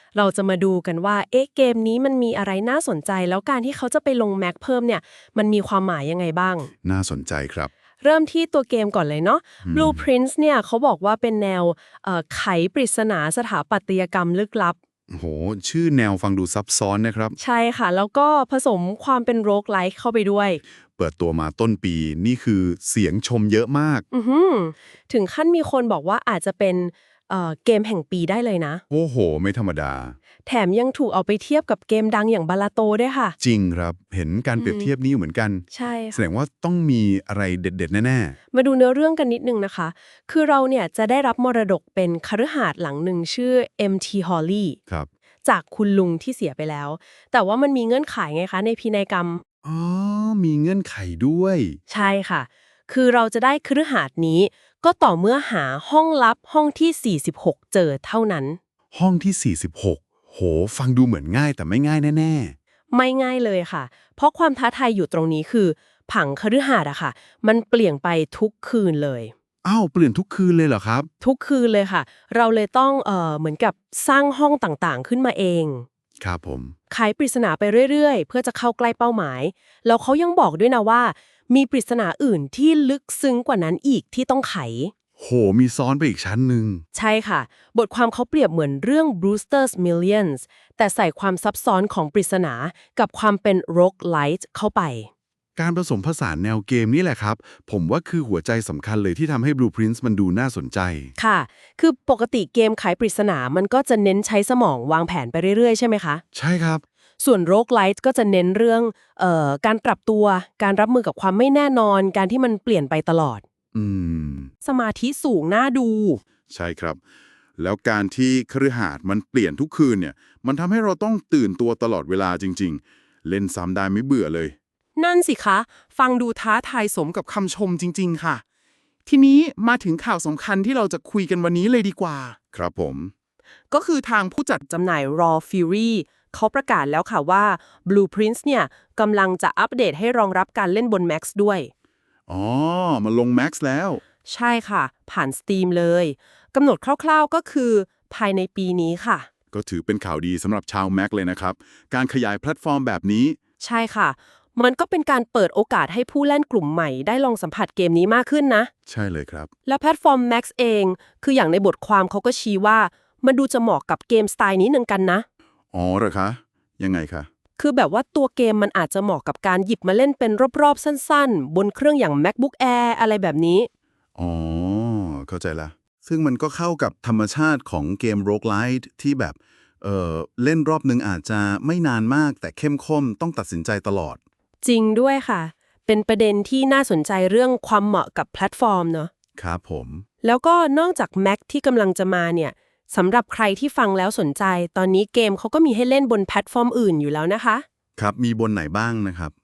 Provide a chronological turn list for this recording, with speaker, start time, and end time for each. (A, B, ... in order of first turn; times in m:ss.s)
0:00.2-0:06.7 A
0:06.8-0:07.7 B
0:08.0-0:14.8 A
0:09.6-0:10.0 B
0:15.1-0:17.4 B
0:17.4-0:20.6 A
0:21.0-0:24.0 B
0:24.1-0:28.8 A
0:28.9-0:30.2 B
0:30.5-0:33.4 A
0:33.4-0:38.4 B
0:34.6-0:34.9 A
0:35.7-0:36.2 A
0:38.5-0:44.8 A
0:45.4-0:49.4 A
0:49.6-0:51.8 B
0:51.9-0:58.6 A
0:58.9-1:02.6 B
1:02.9-1:09.3 A
1:09.6-1:11.1 B
1:11.2-1:15.9 A
1:16.2-1:16.8 B
1:16.9-1:24.9 A
1:25.2-1:26.8 B
1:26.9-1:35.1 A
1:35.6-1:41.1 B
1:41.2-1:46.2 A
1:46.3-1:46.8 B
1:47.2-1:53.4 A
1:53.7-1:54.5 B
1:54.6-1:56.2 A
1:56.5-1:57.0 B
1:57.6-2:04.6 B
2:05.0-2:07.1 A
2:06.9-2:08.4 C
2:09.1-2:12.3 C
2:12.4-2:13.1 B
2:13.7-2:21.7 A
2:13.9-2:14.4 C
2:22.3-2:24.0 B
2:24.2-2:29.3 A
2:29.5-2:33.4 B
2:33.6-2:38.7 A
2:38.9-2:39.5 B
2:39.7-2:45.2 A
2:45.7-2:47.3 B
2:47.6-2:53.7 A
2:54.2-3:04.2 B
3:04.6-3:09.1 A
3:09.4-3:10.0 B
3:10.2-3:17.6 A
3:18.0-3:19.3 B